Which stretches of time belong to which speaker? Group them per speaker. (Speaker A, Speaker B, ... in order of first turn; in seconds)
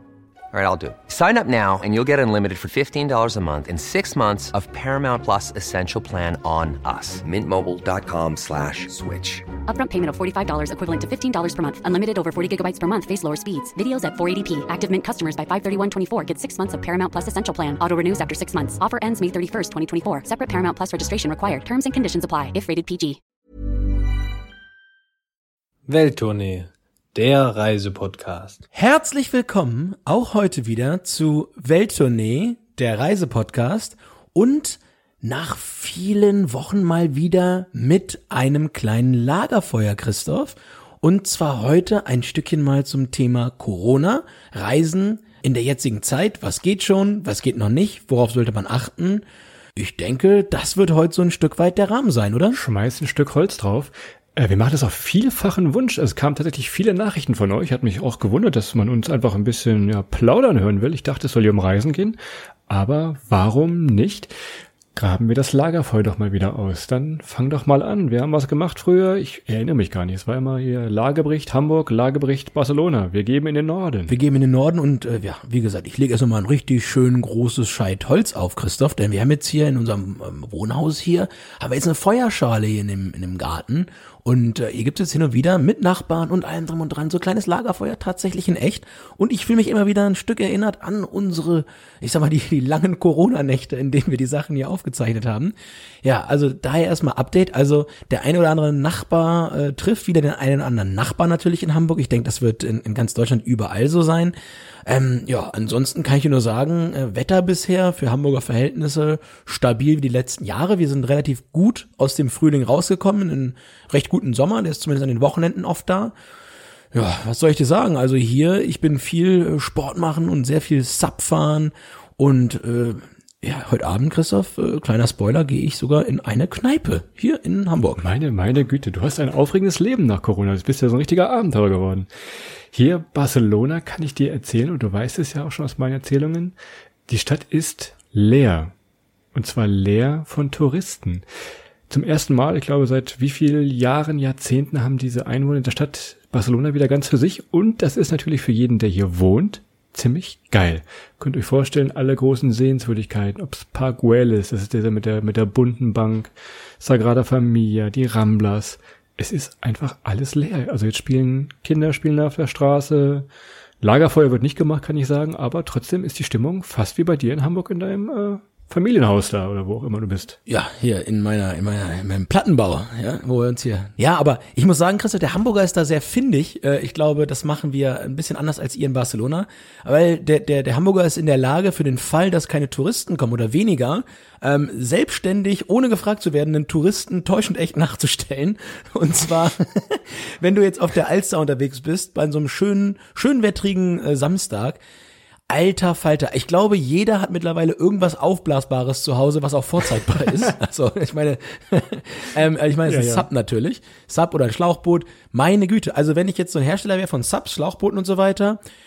Speaker A: 0.5-9.5
Speaker B: 9.7-23.2
Speaker C: 25.9-28.6
Speaker D: 28.7-49.2, 49.8-52.6, 74.1-104.3, 104.9-116.2, 116.9-128.1, 170.5-194.8, 195.5-208.6
Speaker E: 52.5-62.2, 62.7-64.3, 65.0-74.1, 128.0-132.1, 132.7-136.6, 137.1-138.7, 139.3-141.2, 141.9-163.3, 163.8-170.4, 202.9-203.3